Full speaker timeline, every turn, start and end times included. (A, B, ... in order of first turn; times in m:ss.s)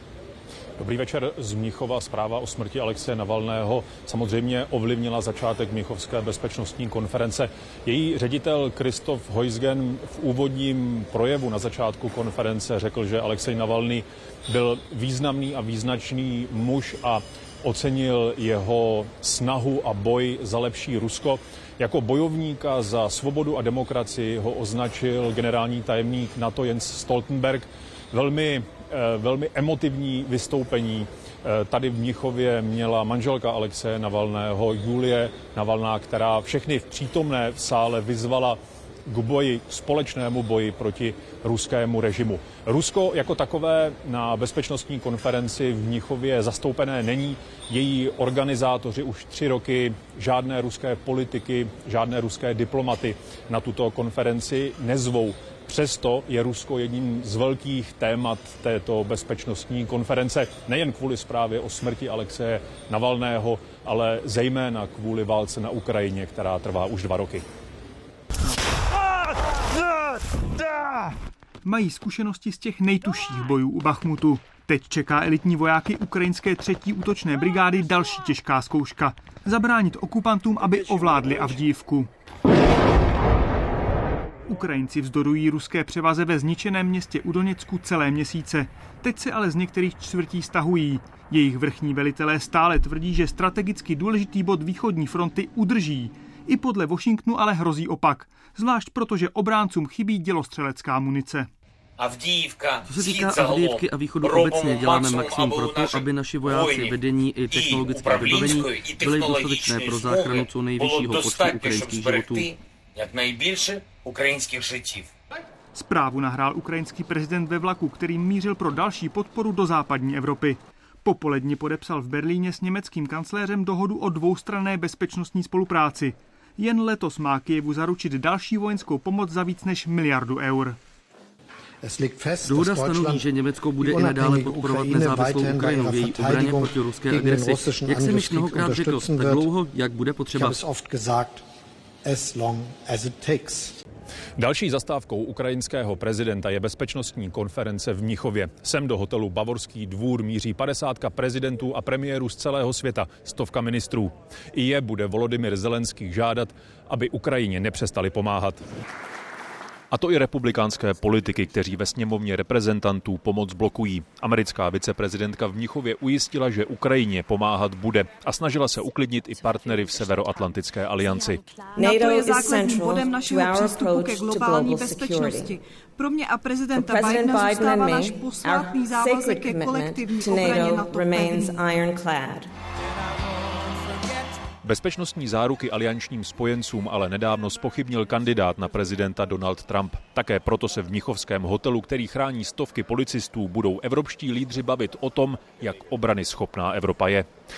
0:00.8-1:07.4 A
1:11.6-1:22.1 B
1:24.5-1:41.5 B
1:42.9-1:52.5 C
1:55.7-2:10.8 B
2:12.4-2:20.6 C
2:24.4-2:38.6 A
2:39.9-2:51.4 A
2:51.7-2:55.5 D
2:56.7-3:02.5 D
3:04.6-3:17.3 A